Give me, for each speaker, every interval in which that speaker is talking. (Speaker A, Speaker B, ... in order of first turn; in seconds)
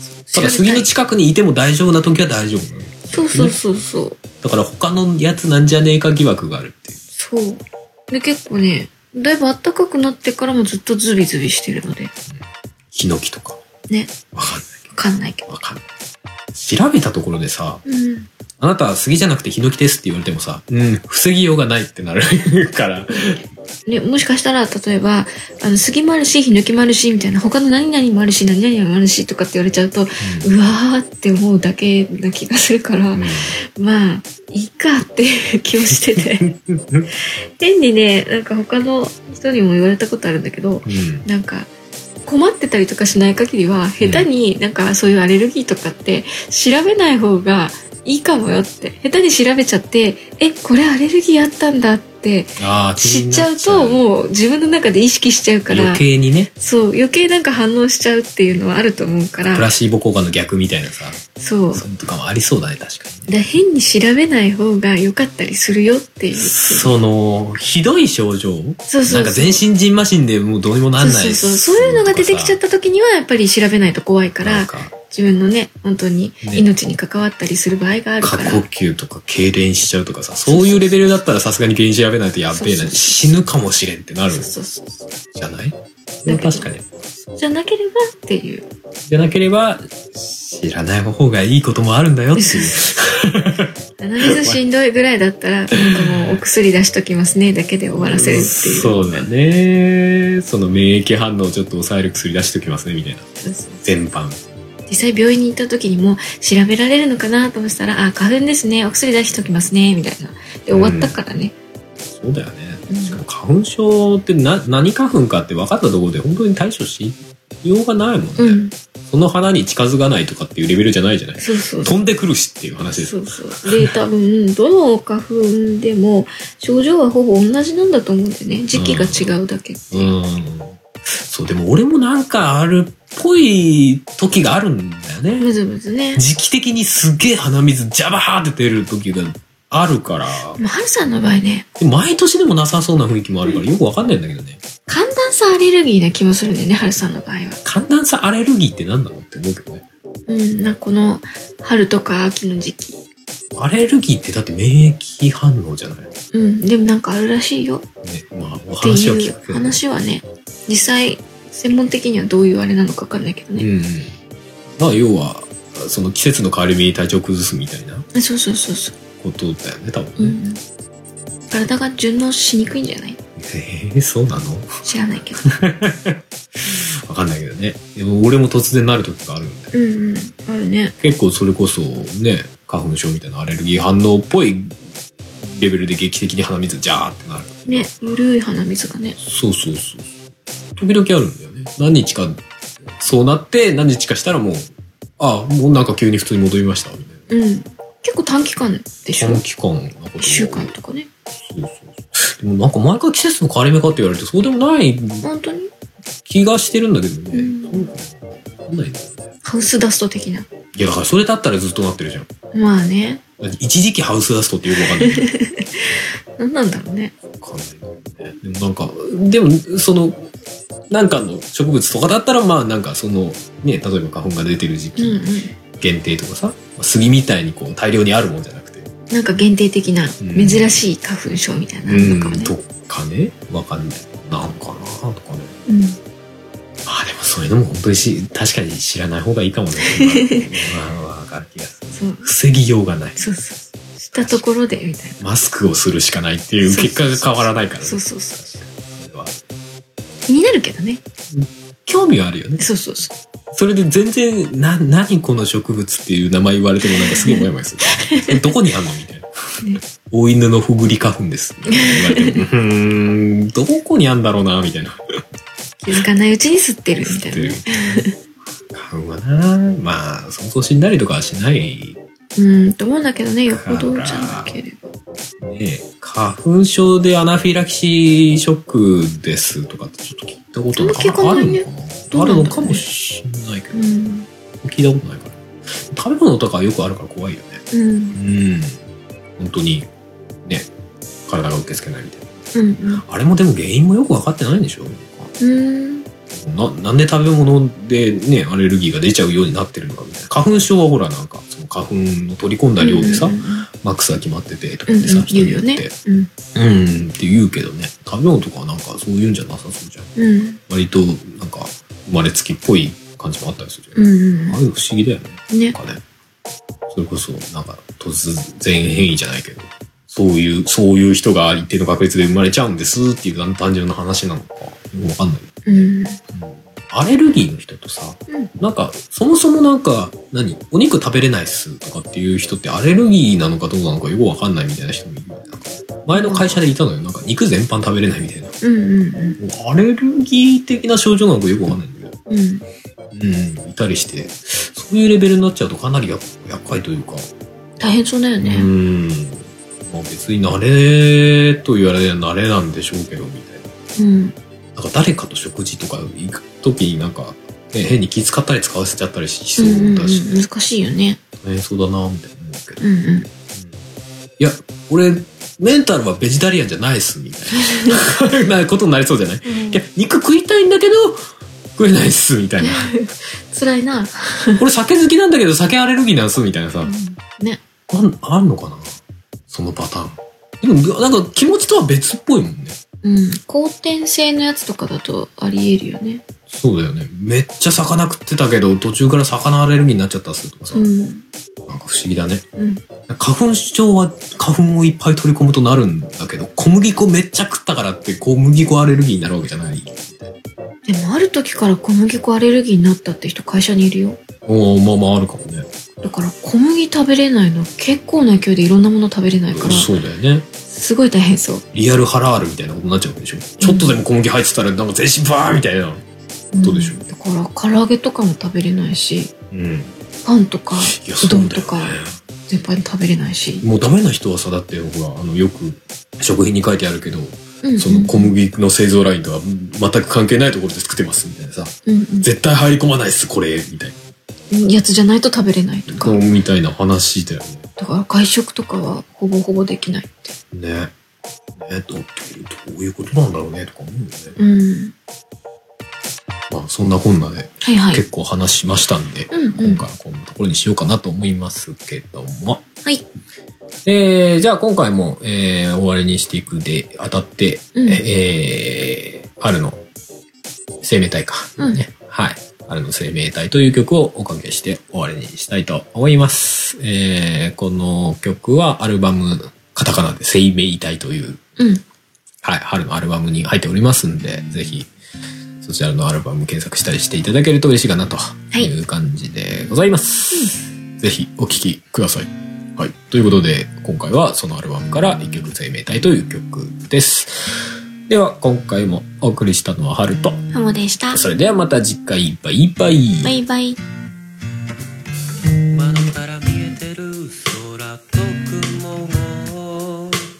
Speaker A: 0.2-0.9, 3.1-4.2, 7.2-12.1, 13.9-14.1, 14.9-15.5, 17.9-18.3, 23.9-36.5, 37.6-41.7, 42.2-56.0, 56.6-59.7, 61.4-61.8, 63.3-66.9, 68.9-69.6, 71.0-78.6, 80.5-81.1, 82.5-83.3, 84.3-85.1, 86.3-86.7, 87.3-88.7, 92.3-92.9, 94.0-99.3, 103.4-103.9, 104.9-111.5, 112.9-113.2, 118.4-118.7, 121.4-121.9, 122.9-130.1, 135.4-136.2, 140.6-141.7, 144.9-147.6, 150.3-153.0, 156.3-157.8, 158.8-163.7, 168.1-168.9, 170.2-170.6, 171.5-173.2, 174.8-175.4, 179.7-180.9, 187.7-189.2, 197.3-199.4, 200.2-201.1, 205.2-205.7, 207.3-207.9, 209.4-210.5, 212.5-213.2, 214.8-217.1, 224.9-225.5, 229.1-232.5, 235.7-236.0, 239.8-240.5, 241.9-242.3, 243.2-245.2, 246.6-248.6, 250.3-251.0, 252.6-253.1, 256.8-257.4, 258.0-258.5, 261.7-262.3, 265.8-268.1, 272.4-274.9, 280.8-282.8, 283.7-284.3, 287.7-288.2, 292.5-293.0, 295.4-296.1, 302.8-303.7, 304.9-306.3, 310.1-310.6, 313.9-314.6, 315.5-315.8, 325.6-326.2, 336.1-336.6, 338.6-339.4, 342.3-342.6, 347.8-348.7, 353.9-354.3, 359.6-361.2, 362.8-363.3, 369.4-369.8, 372.6-374.6, 376.8-377.6, 383.0-386.2, 390.7-391.2, 392.6-392.8, 400.9-404.2, 406.0-409.9, 410.6-411.6, 413.6-413.9, 416.5-419.3, 420.2-423.6, 427.6-428.3, 431.9-432.3, 434.5-436.2, 437.8-440.3, 444.4-444.9, 447.6-448.0, 449.3-449.8, 457.7-458.0, 471.6-471.8, 480.3-480.6, 490.5-491.2, 493.2-493.8
Speaker B: 0.3-3.6, 4.4-7.0, 12.3-13.6, 14.3-14.9, 15.5-15.8, 16.5-17.8, 18.6-23.4, 30.2-30.5, 33.1-33.5, 36.1-37.1, 40.8-41.2, 44.0-44.3, 52.6-54.0, 55.7-56.5, 59.5-61.2, 61.7-63.5, 66.3-72.6, 74.4-74.9, 78.2-84.5, 85.3-86.8, 89.1-94.6, 95.8-96.3, 98.0-103.2, 103.8-104.4, 110.7-111.2, 112.1-123.9, 128.7-129.3, 129.9-135.5, 136.2-140.6, 141.8-144.6, 147.6-149.8, 153.5-156.1, 158.0-159.8, 163.6-164.2, 164.8-168.1, 169.2-170.4, 173.3-174.8, 175.4-179.7, 181.0-184.8, 185.4-187.9, 189.2-190.1, 190.8-192.4, 192.9-197.2, 199.1-200.7, 201.4-205.3, 206.2-208.1, 208.7-209.3, 210.7-212.3, 213.4-215.3, 217.4-220.3, 220.9-228.9, 230.2-230.8, 231.8-235.6, 236.8-243.2, 244.1-244.4, 245.2-249.4, 251.3-252.7, 253.5-265.0, 267.0-267.6, 268.7-272.0, 273.5-274.6, 275.4-283.9, 284.6-288.8, 289.4-289.9, 290.4-290.7, 291.3-292.4, 293.0-295.3, 296.3-305.9, 306.5-310.1, 310.7-316.0, 316.9-325.6, 326.3-338.6, 339.4-342.1, 343.1-347.3, 348.4-353.7, 354.8-360.2, 361.4-362.8, 363.5-363.8, 364.4-372.9, 374.6-376.9, 377.9-379.0, 379.5-382.8, 386.5-390.9, 391.7-392.4, 393.1-400.3, 404.4-405.7, 409.5-410.4, 411.7-416.0, 416.6-417.0, 419.5-419.9, 420.8-422.2, 423.6-434.0, 435.9-437.6, 440.5-440.9, 441.6-444.4, 446.5-452.6, 453.9-459.8, 460.8-471.4, 472.4-474.9, 475.6-487.6, 488.1-490.4, 491.1-493.4
Speaker C: 495.7-499.9